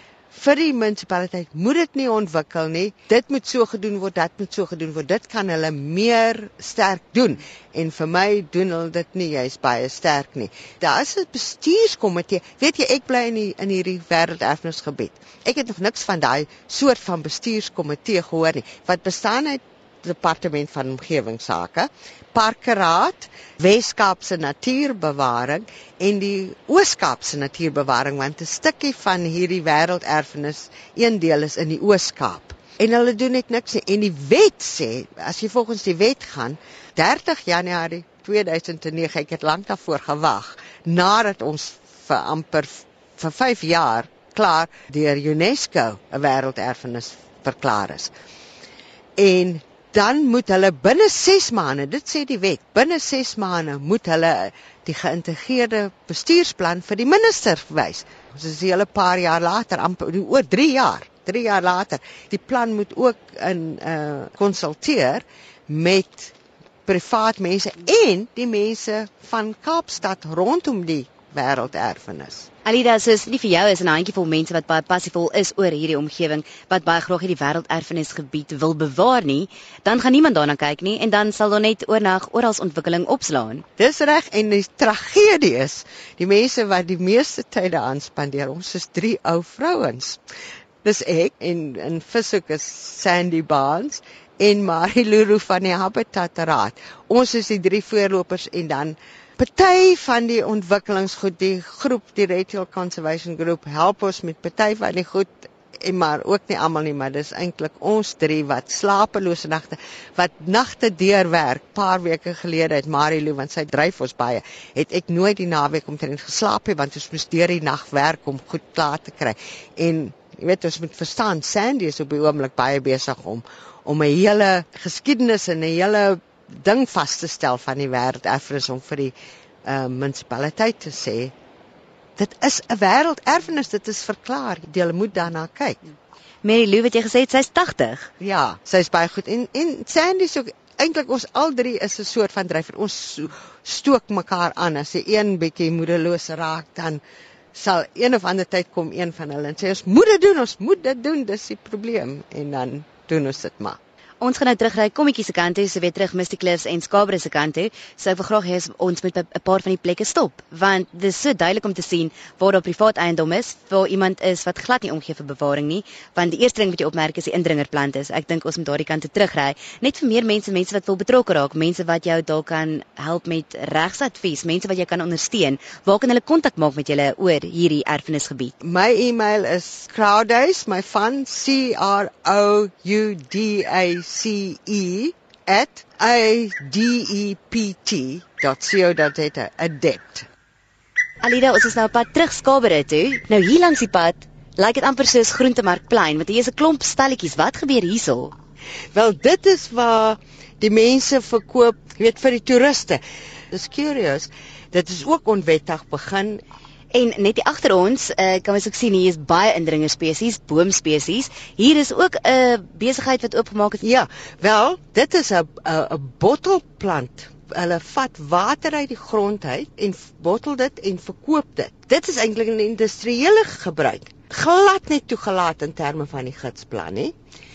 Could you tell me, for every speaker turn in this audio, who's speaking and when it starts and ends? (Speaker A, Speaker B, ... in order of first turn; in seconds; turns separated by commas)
Speaker A: 0.3-48.1, Speaker A: 49.2-66.3, Speaker A: 66.8-72.5, Speaker B: 72.6-83.6, Speaker A: 83.8-90.2, Speaker A: 90.8-131.3, Speaker A: 132.2-135.8, Speaker B: 136.4-138.1, Speaker A: 138.2-147.0, Speaker A: 147.5-153.8, Speaker B: 154.2-178.5, Speaker A: 178.6-190.3, Speaker B: 191.2-198.3, Speaker A: 198.9-206.4, Speaker B: 206.9-213.8, Speaker A: 213.8-227.1